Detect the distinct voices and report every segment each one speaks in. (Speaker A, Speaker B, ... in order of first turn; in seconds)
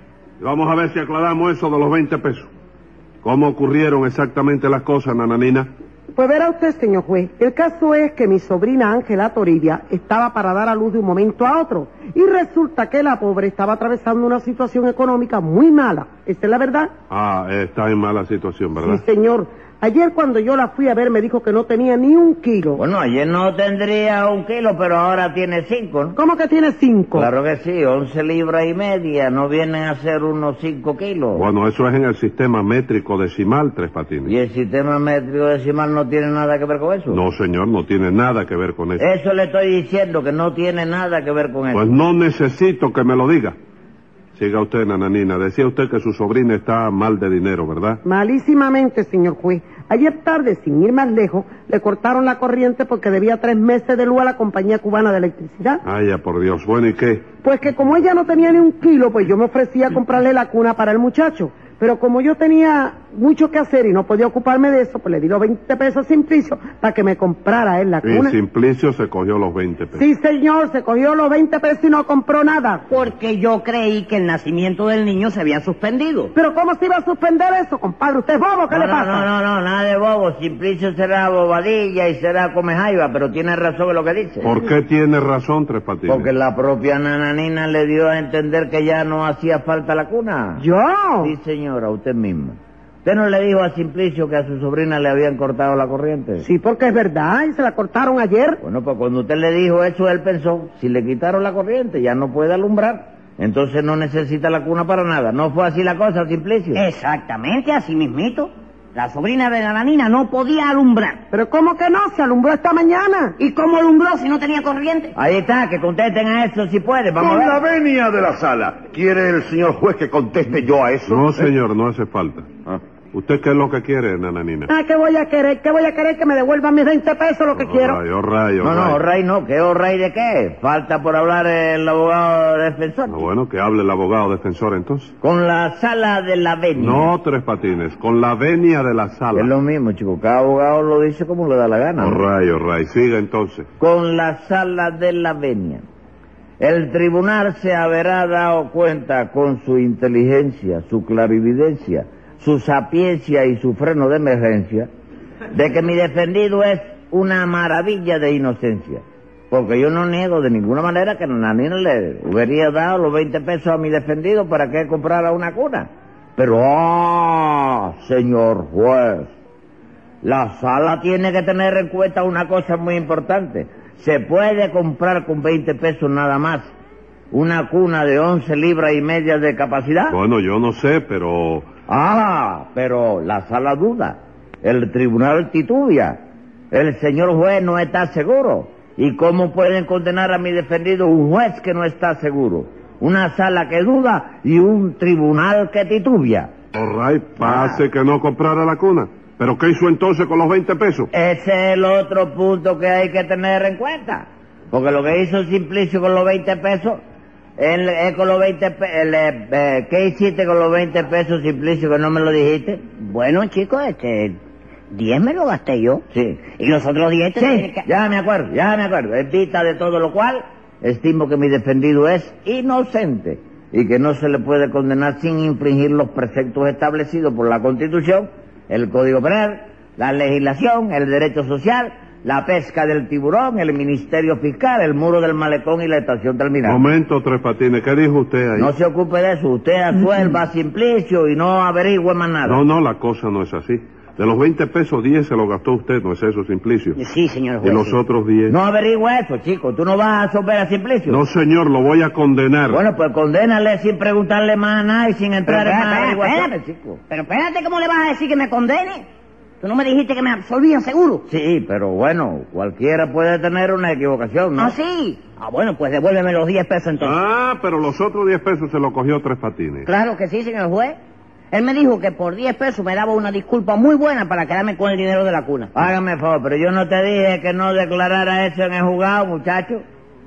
Speaker A: 0.4-2.5, 3.2-5.7, 17.1-19.0, 31.3-34.3, 37.1-39.0, 41.7-43.5, 44.3-48.0, 55.9-57.3, 68.1-70.0, 84.4-86.3, 121.1-122.5, 123.1-124.7, 127.6-129.0, 133.1-135.1, 136.8-139.5, 142.0-143.7, 180.1-181.7, 196.7-201.1, 236.7-238.7, 242.5-247.0, 247.6-248.6, 251.1-252.8, 267.0-269.9
Speaker B: 6.2-16.9, 18.8-22.8, 26.1-27.3, 48.0-55.8, 57.4-68.4, 69.9-72.9, 76.3-79.3, 90.6-91.3, 96.4-98.6, 111.3-113.4, 124.7-128.0
Speaker C: 22.8-26.2, 27.1-31.5, 34.2-37.2, 39.0-42.0, 78.7-84.5, 86.1-90.7, 91.2-96.5, 98.6-106.8, 115.2-117.6, 128.6-133.3, 135.2-137.1, 139.3-142.3, 143.8-145.8, 146.6-154.9, 155.5-169.3, 170.2-176.7, 177.3-180.2, 181.9-196.5, 197.4-197.8, 201.1-207.0, 207.6-212.9, 216.1-216.5, 217.4-236.9, 238.6-242.6, 248.5-251.2, 252.7-257.0, 261.3-264.8, 275.8-279.8
Speaker D: 72.9-76.3, 106.8-111.2, 113.4-115.1, 213.0-214.4, 214.9-216.0, 216.6-217.8, 247.0-248.0, 255.5-256.5, 257.1-259.1, 259.6-261.2, 264.6-267.2, 269.9-271.0, 271.5-275.7
Speaker E: 117.2-121.5